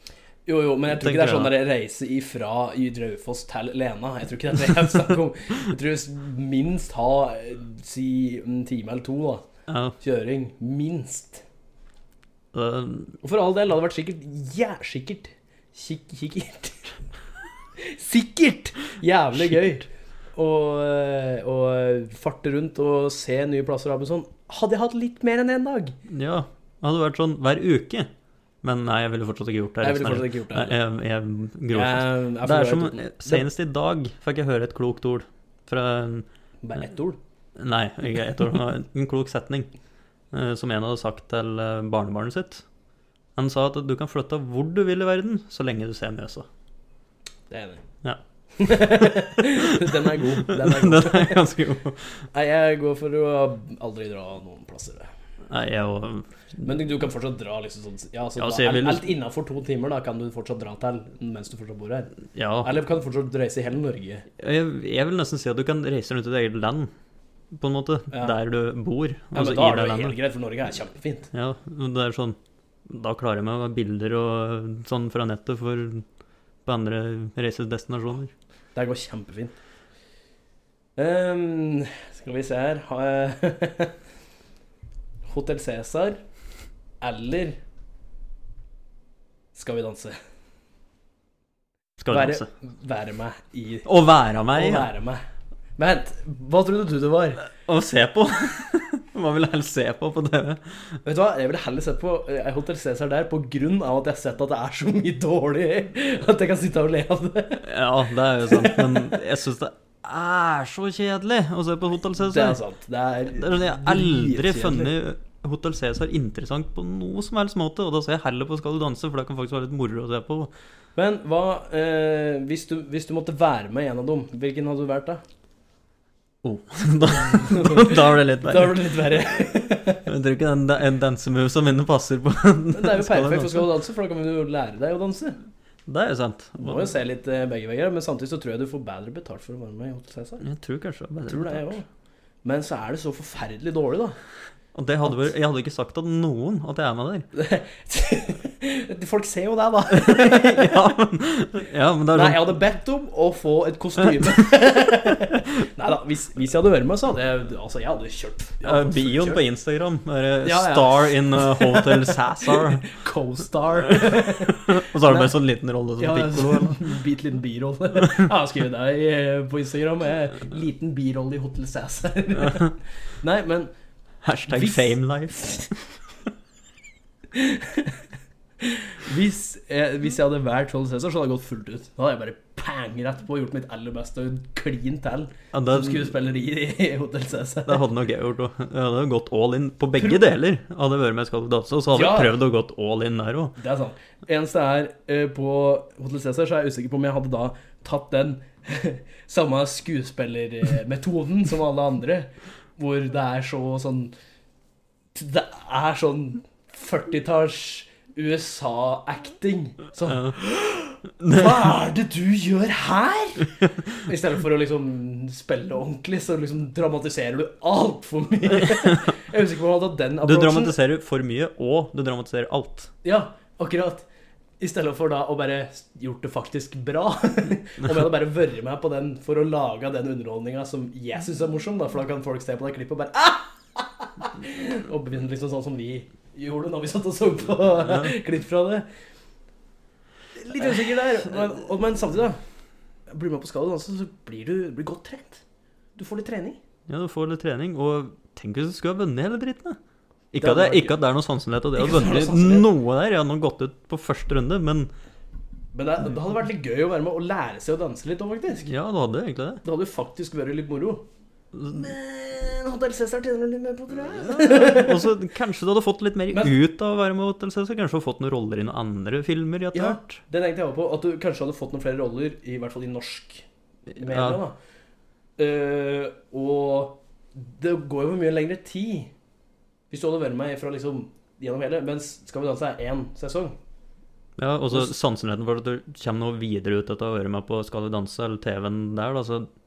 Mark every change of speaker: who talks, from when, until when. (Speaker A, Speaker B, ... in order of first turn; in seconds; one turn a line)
Speaker A: 0.5-9.5
Speaker B: 0.9-1.6
Speaker B: 9.7-9.9
Speaker A: 10.0-11.4
Speaker B: 12.5-13.2
Speaker A: 13.2-16.9
Speaker A: 17.8-26.0
Speaker B: 26.1-28.1
Speaker B: 28.6-36.3
Speaker A: 29.8-30.8
Speaker A: 31.7-33.5
Speaker A: 36.6-37.2
Speaker B: 37.6-39.7
Speaker B: 40.3-42.6
Speaker B: 43.4-46.5
Speaker A: 47.5-47.9
Speaker B: 48.0-52.2
Speaker A: 48.6-51.5
Speaker A: 52.3-55.1
Speaker B: 55.5-56.8
Speaker A: 56.6-64.3
Speaker B: 58.4-59.1
Speaker B: 62.3-62.8
Speaker B: 64.4-66.9
Speaker B: 67.5-70.2
Speaker A: 68.1-68.4
Speaker A: 69.3-71.3
Speaker B: 71.3-76.1
Speaker B: 76.6-78.3
Speaker A: 78.8-79.5
Speaker A: 81.0-83.9
Speaker A: 85.3-86.2
Speaker A: 87.0-87.6
Speaker A: 89.5-90.2
Speaker B: 92.0-92.5
Speaker A: 92.1-93.9
Speaker B: 93.8-94.9
Speaker A: 94.5-95.2
Speaker A: 95.8-97.4
Speaker B: 97.5-101.0
Speaker A: 101.0-107.7
Speaker B: 107.6-112.6
Speaker A: 108.4-109.2
Speaker A: 112.2-114.9
Speaker B: 113.3-120.5
Speaker A: 121.0-125.2
Speaker B: 126.4-133.7
Speaker A: 127.1-130.1
Speaker A: 132.7-135.4
Speaker B: 135.9-136.9
Speaker A: 136.6-140.4
Speaker B: 140.4-141.8
Speaker A: 141.3-141.9
Speaker A: 142.4-144.2
Speaker B: 144.7-147.3
Speaker A: 147.3-150.9
Speaker B: 149.9-152.6
Speaker A: 152.1-159.4
Speaker B: 158.6-162.9
Speaker A: 160.4-165.3
Speaker B: 163.8-166.8
Speaker A: 166.0-173.7
Speaker B: 174.2-175.8
Speaker A: 174.5-175.7
Speaker A: 177.3-178.0
Speaker A: 178.6-187.9
Speaker B: 185.5-186.1
Speaker B: 187.7-193.6
Speaker A: 190.0-190.2
Speaker A: 191.9-192.4
Speaker A: 193.6-204.1
Speaker A: 205.1-220.8
Speaker B: 211.2-211.7
Speaker B: 218.7-219.1
Speaker B: 220.2-222.9
Speaker A: 223.0-224.1
Speaker A: 224.6-238.9
Speaker A: 240.4-242.4
Speaker A: 243.1-245.4
Speaker A: 245.9-246.6
Speaker B: 246.9-249.8
Speaker B: 250.3-254.9
Speaker A: 250.4-251.0
Speaker A: 251.7-252.7
Speaker A: 255.7-258.7
Speaker B: 258.7-259.6
Speaker A: 259.6-261.1
Speaker B: 261.5-261.9
Speaker A: 261.7-265.1
Speaker B: 264.2-270.2
Speaker A: 269.7-274.6
Speaker B: 274.0-274.4
Speaker A: 275.4-279.1
Speaker A: 279.9-283.6
Speaker B: 284.4-289.5